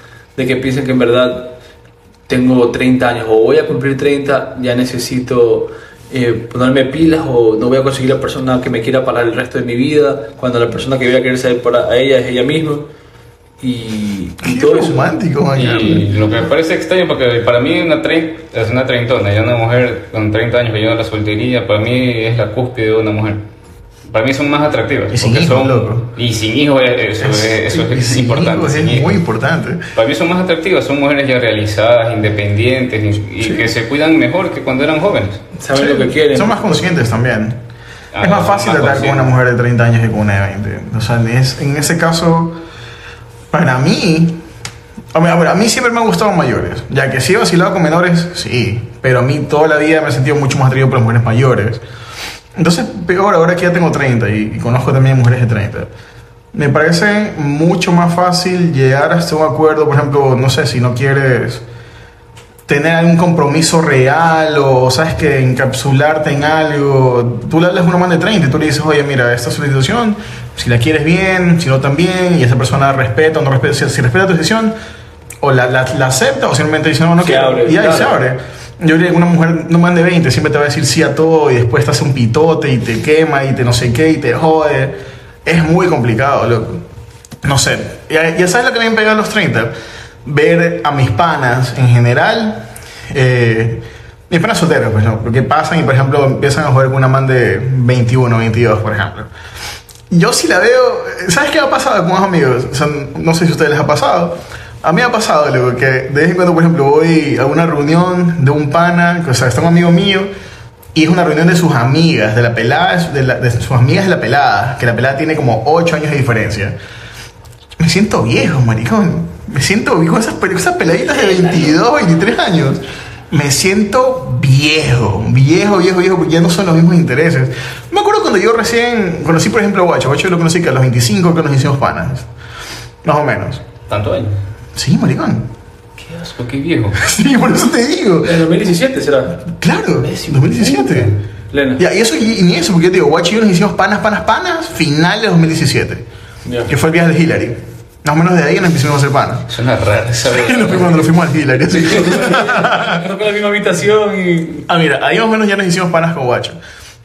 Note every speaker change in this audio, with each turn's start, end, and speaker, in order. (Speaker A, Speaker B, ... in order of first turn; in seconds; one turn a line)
Speaker A: 0.4-1.6
Speaker A: 2.3-12.9
Speaker A: 13.6-15.1
Speaker B: 14.4-16.3
Speaker C: 15.6-23.4
Speaker C: 24.1-29.2
Speaker B: 25.1-26.1
Speaker B: 27.2-29.9
Speaker C: 29.9-35.4
Speaker A: 35.6-36.9
Speaker B: 35.7-37.6
Speaker C: 38.1-39.3
Speaker B: 38.2-42.6
Speaker B: 43.5-44.4
Speaker B: 45.1-51.8
Speaker B: 52.6-55.9
Speaker B: 56.5-61.6
Speaker B: 62.7-74.7
Speaker B: 75.4-86.8
Speaker A: 77.2-78.2
Speaker B: 87.4-89.7
Speaker B: 90.2-99.3
Speaker B: 100.1-110.3
Speaker B: 111.0-116.8
Speaker B: 117.8-132.3
Speaker B: 133.0-133.6
Speaker C: 133.9-134.4
Speaker B: 134.8-135.5
Speaker C: 136.0-137.0
Speaker B: 137.0-138.4
Speaker A: 138.2-139.4
Speaker B: 139.5-141.2
Speaker C: 140.1-141.1
Speaker A: 141.5-141.8
Speaker B: 141.8-146.0
Speaker A: 146.5-146.7
Speaker B: 146.7-149.5
Speaker C: 149.5-151.0
Speaker B: 150.2-153.1
Speaker A: 151.7-154.7
Speaker B: 154.7-156.6